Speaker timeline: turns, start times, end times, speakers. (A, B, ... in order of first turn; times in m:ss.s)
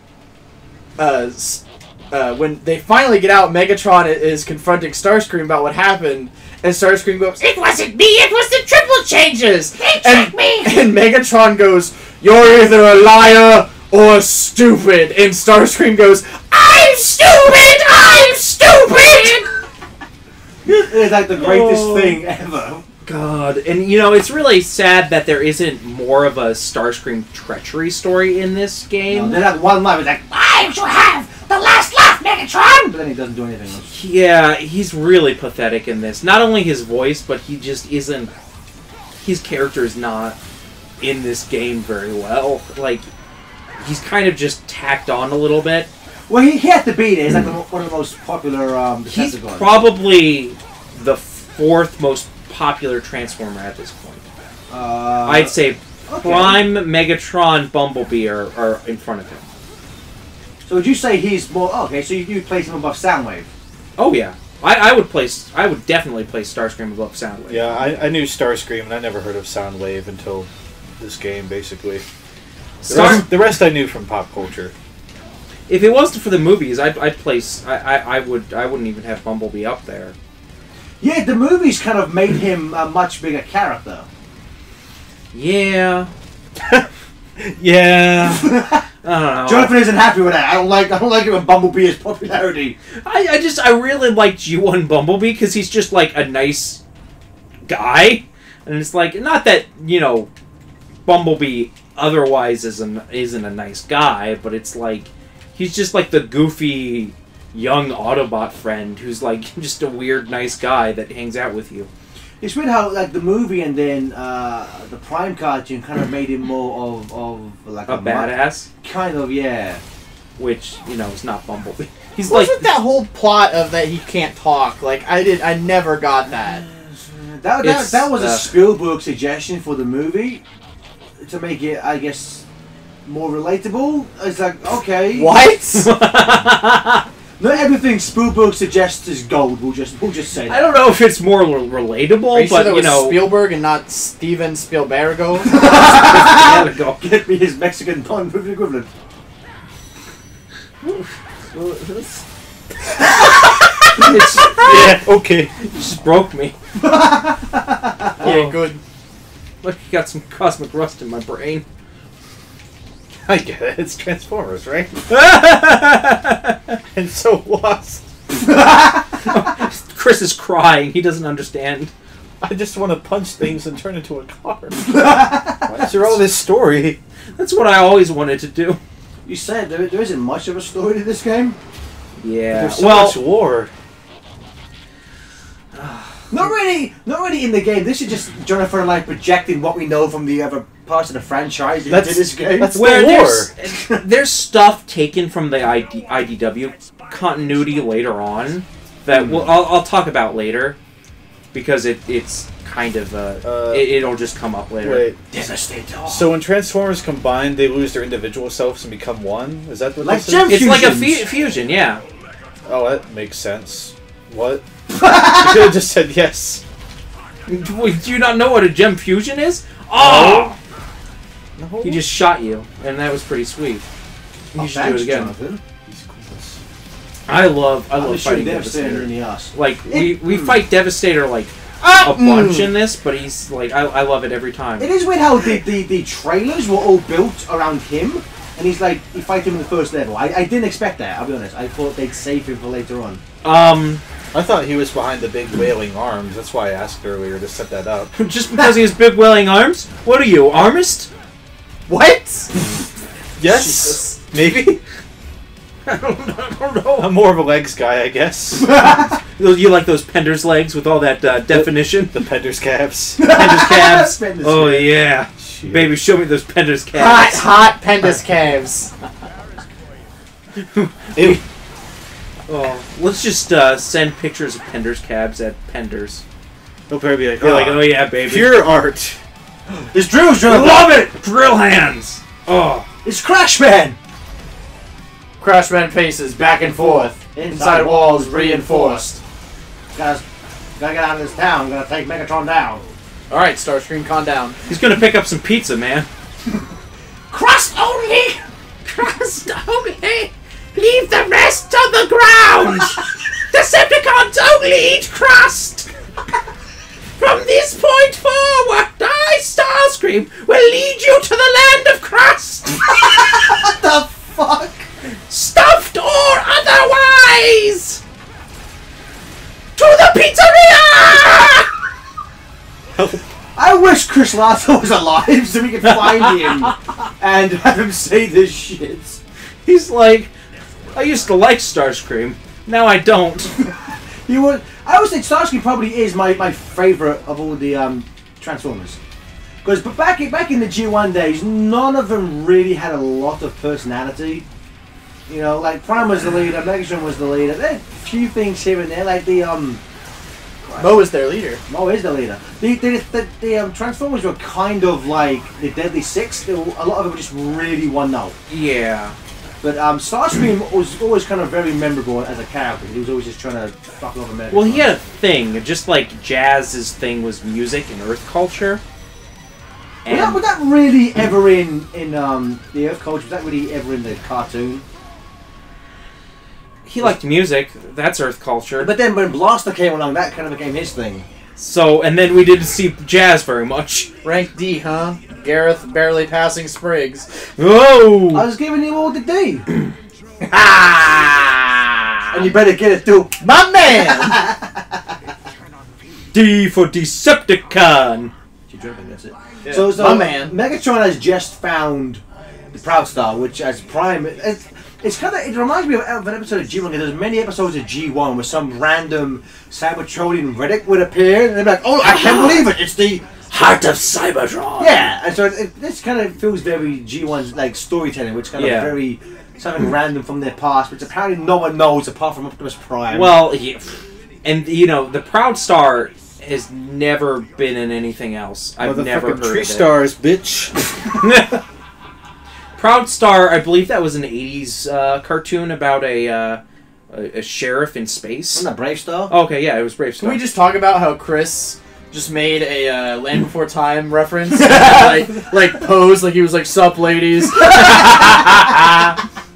0:01.0-0:19.5 A
0:09.8-0:10.7 B
0:20.7-0:22.8 C
0:21.3-0:22.2 B
0:23.0-0:29.4 B
0:29.1-0:33.9 C
0:33.9-0:38.3 B
0:39.2-0:40.4 B
0:41.0-0:43.1 B
0:43.8-0:45.9 B
0:46.3-0:49.7 C
0:49.1-0:54.2 B
0:54.7-0:55.6 C
0:55.2-0:59.5 B
0:56.1-0:56.7 C
1:00.6-1:03.5 C
1:04.0-1:07.8 B
1:07.5-1:12.0 D
1:12.8-1:13.3 B
1:12.9-1:13.3 C
1:12.9-1:14.7 D
1:15.7-1:20.2 B
1:21.0-1:24.1 C
1:25.3-1:26.1 B
1:26.6-1:26.9 D
1:27.6-1:29.8 B
1:28.2-1:28.9 C
1:29.4-1:32.8 C
1:33.0-1:36.8 B
1:37.7-1:40.3 B
1:41.0-1:51.9 B
1:52.4-1:58.3 C
1:57.9-1:58.7 B
1:58.8-1:59.8 C
2:00.4-2:02.7 B
2:02.3-2:06.6 A
2:06.6-2:10.4 C
2:07.6-2:08.6 B
2:11.2-2:12.4 C
2:13.0-2:15.4 C
2:15.1-2:15.9 A
2:15.7-2:17.1 B
2:17.4-2:20.7 C
2:20.5-2:23.3 B
2:22.3-2:25.6 A
2:25.4-2:28.9 C
2:25.6-2:27.0 B
2:31.5-2:32.1 B
2:33.9-2:35.0 B
2:34.6-2:35.5 D
2:35.6-2:36.6 B
2:36.8-2:38.3 C
2:38.2-2:38.6 B
2:38.2-2:38.8 A
2:39.6-2:41.6 B
2:43.3-2:44.9 D
2:45.1-2:46.8 B
2:46.9-2:48.1 D
2:48.4-2:49.2 C
2:49.2-2:51.9 B
2:52.4-2:54.8 D
2:54.8-2:56.2 C
2:55.7-2:57.0 D
2:57.4-2:58.8 B
2:59.2-3:01.6 C
3:02.2-3:03.2 B
3:02.5-3:03.7 D
3:05.7-3:06.4 B
3:06.3-3:12.8 C
3:11.9-3:13.5 D
3:12.7-3:20.8 B
3:13.7-3:14.0 C
3:19.1-3:19.5 C
3:21.5-3:25.0 B
3:23.4-3:23.9 D
3:24.8-3:25.2 D
3:25.3-3:26.3 C
3:26.1-3:30.7 D
3:30.0-3:31.3 C
3:30.5-3:32.0 B
3:32.6-3:36.6 D
3:34.9-3:35.8 C
3:37.5-3:40.6 B
3:40.0-3:40.5 D
3:41.6-3:42.0 D
3:41.8-3:43.9 B
3:44.6-3:45.3 B
3:44.6-3:45.6 C
3:45.9-3:46.6 D
3:47.3-3:54.9 B
3:47.9-3:50.6 C
3:51.8-3:52.7 A
3:54.8-4:03.2 C
4:03.4-4:04.0 B
4:04.3-4:08.1 D
4:08.1-4:11.1 B
4:11.9-4:12.5 A
4:13.4-4:14.0 D
4:13.4-4:14.8 B
4:15.9-4:17.1 B
4:17.0-4:19.0 D
4:18.6-4:19.2 C
4:19.4-4:22.2 B
4:21.5-4:23.2 D
4:23.2-4:24.9 C
4:23.2-4:27.5 B
4:25.4-4:25.9 D
4:26.9-4:28.9 A
4:30.6-4:31.4 B
4:31.2-4:31.4 D
4:32.5-4:36.2 B
4:36.9-4:39.2 D
4:37.4-4:38.6 B
4:39.8-4:41.0 C
4:40.4-4:42.9 B
4:43.0-4:44.0 C
4:45.4-4:49.2 A
4:46.3-4:49.2 C
4:50.0-4:50.2 C
4:50.8-4:52.8 C
4:53.3-4:54.6 A
4:54.7-4:56.1 B
4:57.3-4:58.4 C
4:58.8-5:05.9 B
5:07.2-5:13.0 B
5:13.0-5:14.9 C
5:15.3-5:18.0 B
5:19.8-5:21.7 B
5:23.6-5:29.2 C
5:26.0-5:26.6 B
5:29.6-5:30.3 B
5:30.9-5:33.6 B
5:33.6-5:39.0 C
5:39.6-5:44.5 C
5:45.3-5:49.8 C
5:50.6-5:51.0 C
5:50.8-5:51.6 A
5:51.7-5:58.4 C
5:58.5-5:59.2 B
5:59.6-6:04.9 C
6:04.5-6:08.8 B
6:10.0-6:10.4 B
6:10.1-6:14.8 C
6:16.9-6:18.9 B
6:18.8-6:21.3 C
6:21.6-6:24.1 B
6:24.2-6:27.3 A
6:27.6-6:28.5 B
6:28.3-6:29.7 C
6:30.5-6:31.3 A
6:31.1-6:31.5 B
6:32.3-6:34.9 C
6:33.4-6:34.4 A
6:36.3-6:38.3 B
6:38.7-6:53.3 C
6:39.6-6:40.6 A
6:52.0-6:52.6 B
6:53.4-6:55.2 B
6:54.8-7:03.3 C
6:58.6-6:59.0 B
7:03.1-7:09.9 B
7:08.8-7:11.0 D
7:11.2-7:11.6 B
7:12.8-7:18.6 B
7:18.6-7:19.3 C
7:19.3-7:20.4 B
7:20.2-7:28.2 A
7:28.1-7:28.7 B